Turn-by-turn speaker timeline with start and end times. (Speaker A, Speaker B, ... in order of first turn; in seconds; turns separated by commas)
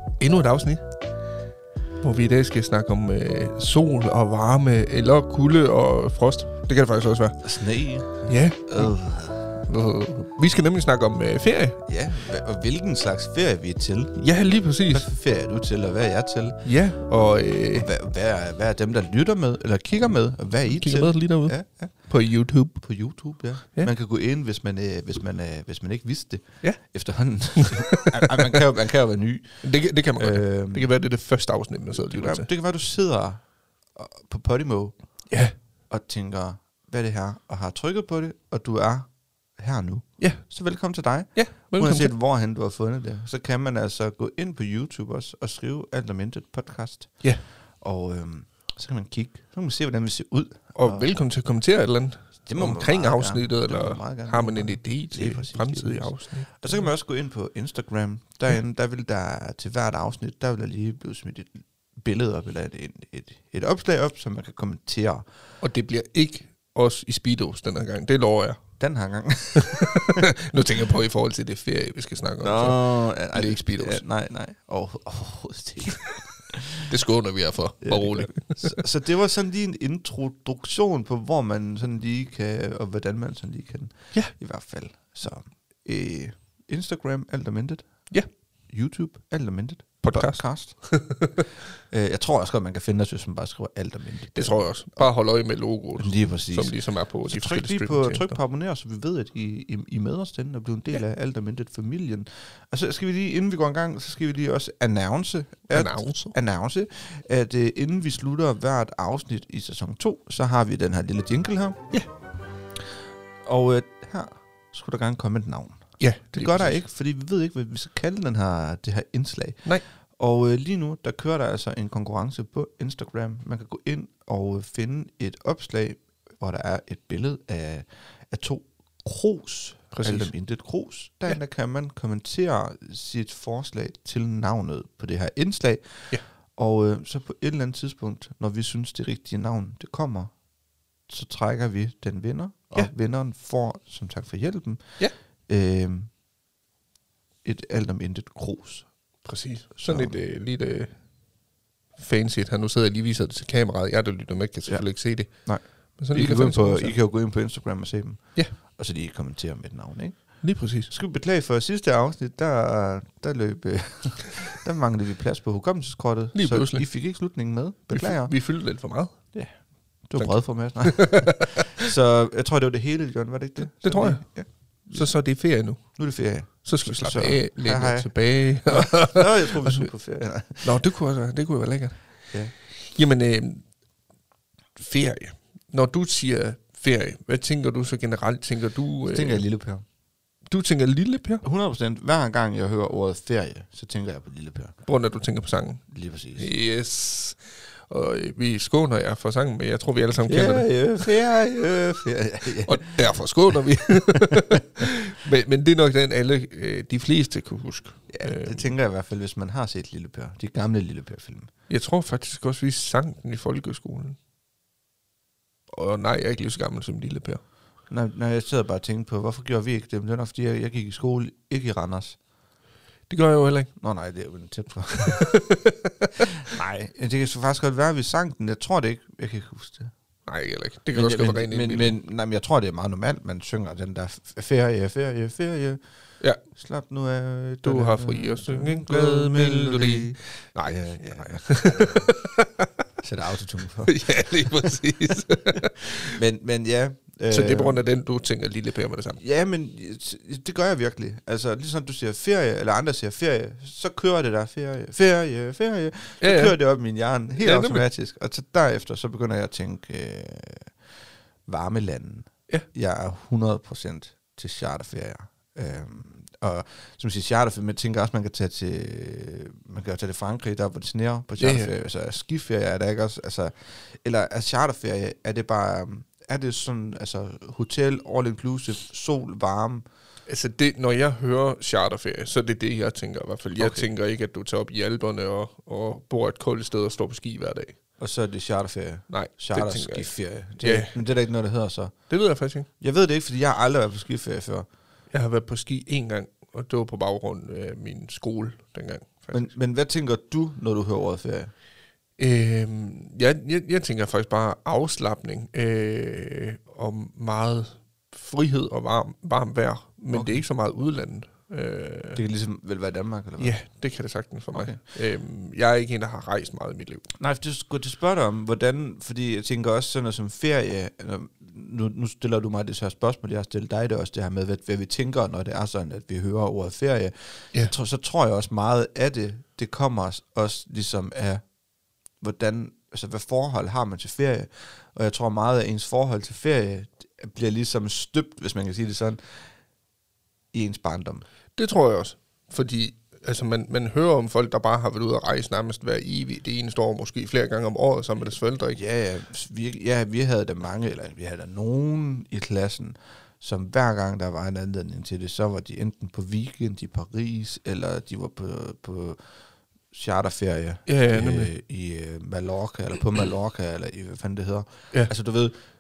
Speaker A: 0.1-0.9, Speaker A: 2.0-7.4, Speaker B: 7.4-9.5, Speaker A: 8.2-11.8, Speaker B: 11.9-14.2, Speaker A: 14.2-15.1, Speaker B: 14.9-16.6, Speaker A: 16.6-17.9, Speaker B: 17.7-22.0, Speaker A: 20.7-22.8, Speaker B: 22.8-29.6, Speaker A: 27.6-28.6, Speaker A: 29.6-32.5, Speaker B: 30.2-30.9, Speaker B: 32.1-33.4, Speaker B: 34.0-35.2, Speaker A: 35.3-35.5, Speaker B: 35.9-51.1, Speaker A: 41.4-42.1, Speaker A: 50.8-56.9, Speaker B: 52.5-65.2, Speaker A: 65.6-68.6, Speaker B: 68.8-70.2, Speaker A: 69.6-74.0, Speaker B: 72.4-76.9, Speaker A: 76.9-78.8, Speaker B: 77.8-88.0, Speaker B: 88.7-90.9, Speaker A: 90.0-91.4, Speaker B: 91.9-95.0, Speaker A: 94.3-98.4, Speaker B: 96.0-111.9, Speaker A: 105.7-106.3, Speaker B: 113.5-140.3, Speaker A: 116.0-116.8, Speaker A: 129.9-130.3, Speaker B: 141.1-146.1, Speaker B: 147.4-148.9, Speaker A: 149.2-151.0, Speaker B: 149.8-150.2, Speaker A: 152.0-157.0, Speaker B: 154.7-168.3, Speaker A: 160.4-160.9, Speaker A: 166.3-166.9, Speaker A: 167.9-169.2, Speaker B: 169.3-175.1, Speaker A: 170.2-171.5, Speaker A: 173.7-179.9, Speaker B: 176.0-178.1, Speaker B: 178.6-180.8, Speaker A: 180.6-183.7, Speaker A: 184.8-189.4, Speaker B: 189.0-189.8, Speaker A: 190.5-191.4, Speaker B: 191.4-194.8, Speaker A: 194.8-195.8, Speaker B: 195.9-196.5, Speaker A: 196.4-201.1, Speaker B: 200.3-203.0, Speaker A: 202.7-208.7, Speaker B: 204.2-204.6, Speaker B: 208.1-211.5, Speaker A: 211.7-214.2, Speaker A: 215.7-217.4, Speaker B: 217.9-222.2, Speaker A: 223.1-223.7, Speaker B: 223.8-225.3, Speaker A: 225.2-226.2, Speaker B: 226.2-229.9, Speaker A: 230.3-231.9, Speaker B: 230.9-235.8, Speaker B: 236.5-242.2, Speaker A: 237.6-242.7, Speaker B: 243.0-244.8, Speaker A: 243.8-246.2, Speaker B: 246.1-247.8, Speaker A: 247.3-249.2, Speaker B: 249.2-260.7, Speaker A: 256.2-256.6, Speaker A: 257.4-257.9, Speaker B: 261.5-279.8, Speaker A: 271.4-271.7, Speaker A: 280.3-287.8, Speaker B: 283.6-283.9, Speaker B: 288.0-291.9, Speaker A: 289.1-291.0, Speaker A: 292.1-292.7, Speaker B: 292.8-294.7, Speaker A: 295.1-299.5, Speaker B: 299.3-301.5, Speaker A: 302.2-312.2, Speaker B: 310.1-310.4, Speaker B: 312.1-313.6, Speaker A: 313.4-317.1, Speaker B: 314.5-314.8, Speaker B: 317.2-331.4, Speaker B: 332.2-339.2, Speaker B: 340.5-341.2, Speaker A: 341.6-348.8, Speaker B: 348.8-359.2, Speaker B: 359.9-365.6, Speaker A: 360.9-361.5